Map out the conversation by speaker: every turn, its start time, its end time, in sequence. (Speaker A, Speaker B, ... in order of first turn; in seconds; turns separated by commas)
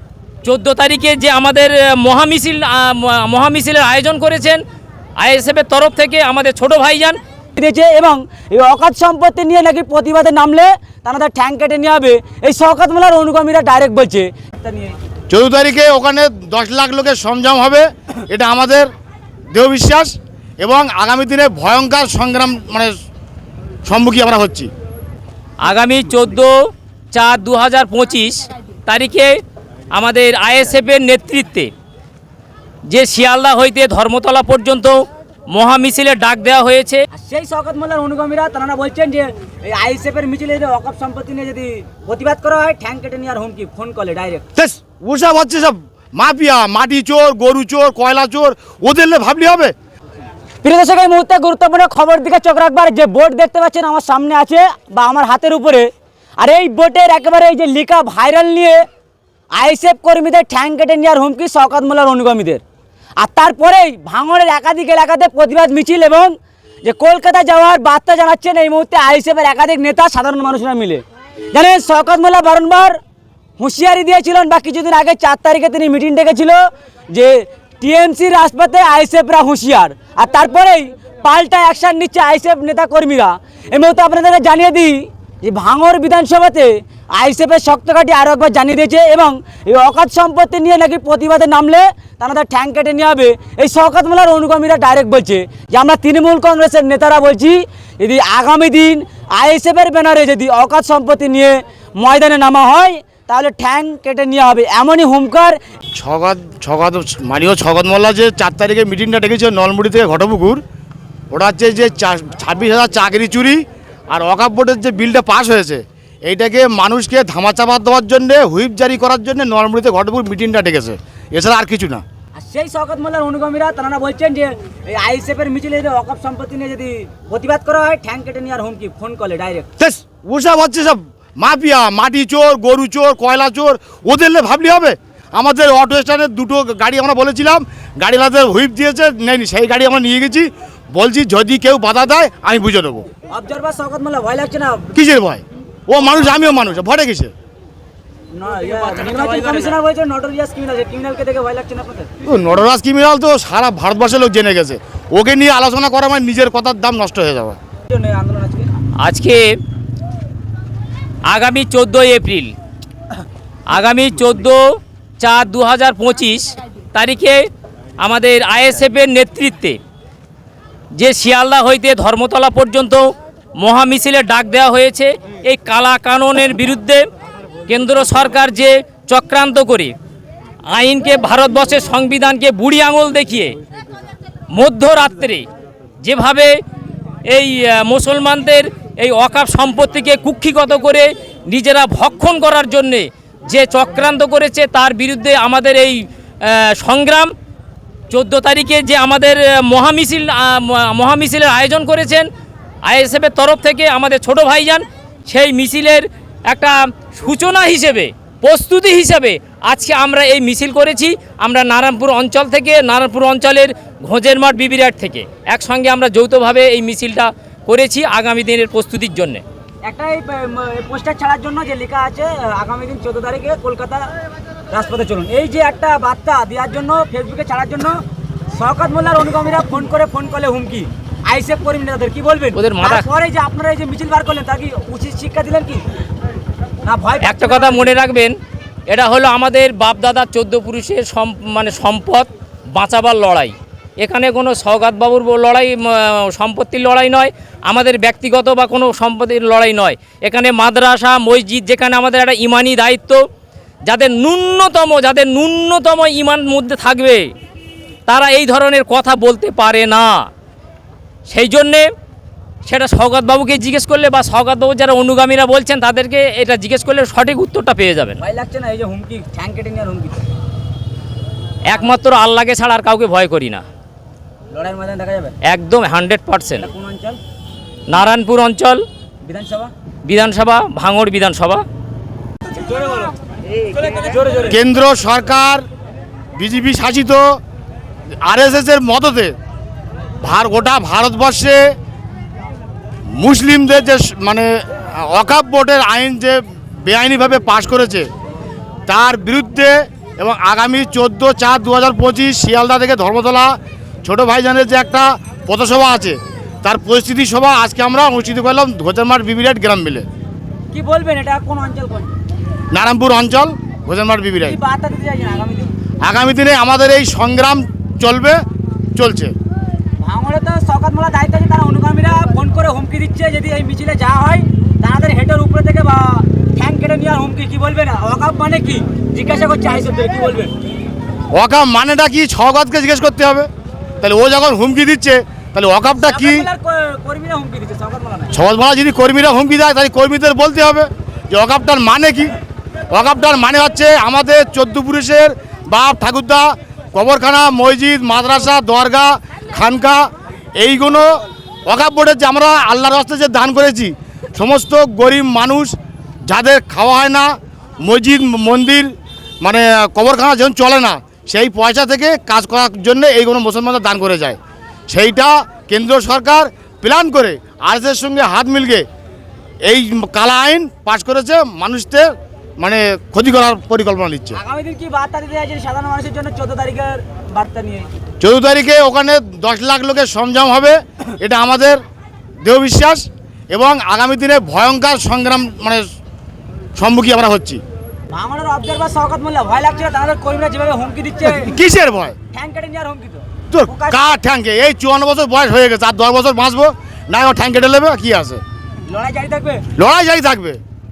Speaker A: 0.4-4.6, Speaker A: 5.2-7.2, Speaker B: 7.6-14.9, Speaker C: 15.3-18.9, Speaker C: 19.5-22.9, Speaker C: 23.8-24.7, Speaker A: 25.6-26.5, Speaker A: 27.1-29.4, Speaker A: 29.9-31.7, Speaker A: 32.9-37.0, Speaker B: 37.1-44.5, Speaker C: 44.6-49.7, Speaker B: 50.6-58.8, Speaker B: 59.5-62.6, Speaker B: 63.2-73.0, Speaker B: 73.6-105.6, Speaker C: 106.0-110.6, Speaker C: 111.3-122.0, Speaker B: 122.4-129.7, Speaker C: 129.8-143.1, Speaker B: 143.3-144.9, Speaker C: 144.9-147.3, Speaker B: 148.3-152.1, Speaker C: 152.2-157.6, Speaker B: 157.9-158.7, Speaker A: 159.0-159.5, Speaker A: 161.3-162.5, Speaker A: 163.7-164.6, Speaker A: 165.2-167.5, Speaker A: 168.0-169.8, Speaker A: 170.9-177.1, Speaker A: 177.7-179.9, Speaker A: 180.7-183.6, Speaker A: 184.5-185.5, Speaker A: 186.0-186.6, Speaker A: 187.3-197.3, Speaker A: 198.1-202.3, Speaker A: 202.8-219.4, Speaker B: 219.8-224.1, Speaker B: 224.7-228.0, Speaker B: 228.5-235.8, Speaker A: 232.6-233.1, Speaker B: 236.8-237.9, Speaker A: 237.2-238.3, Speaker A: 238.9-253.2, Speaker A: 253.9-257.3, Speaker A: 258.1-260.3, Speaker A: 261.3-261.9, Speaker A: 262.6-268.2, Speaker B: 268.2-270.3, Speaker A: 271.7-273.6, Speaker B: 274.5-275.4, Speaker A: 275.4-276.7, Speaker B: 276.6-277.2, Speaker A: 277.9-278.8, Speaker B: 279.2-279.7, Speaker A: 280.1-281.6, Speaker B: 282.5-284.6, Speaker C: 284.5-285.6, Speaker C: 286.4-287.4, Speaker C: 288.2-289.4, Speaker C: 290.2-291.7, Speaker C: 293.2-298.1, Speaker C: 298.9-310.1, Speaker B: 310.7-312.1, Speaker C: 312.7-314.6, Speaker B: 314.4-315.7, Speaker C: 316.0-318.4, Speaker C: 318.9-319.3, Speaker B: 320.0-330.5, Speaker C: 331.3-333.5, Speaker C: 334.0-336.5, Speaker B: 336.0-338.4, Speaker C: 338.3-342.3, Speaker C: 342.9-355.8, Speaker C: 356.3-364.4, Speaker C: 364.9-368.9, Speaker C: 369.7-374.4, Speaker B: 374.3-377.9, Speaker C: 378.2-381.8, Speaker C: 382.4-385.9, Speaker C: 386.8-387.6, Speaker B: 388.1-391.5, Speaker C: 391.3-392.2, Speaker B: 392.3-394.2, Speaker C: 393.5-398.4, Speaker B: 398.9-399.6, Speaker C: 399.8-400.6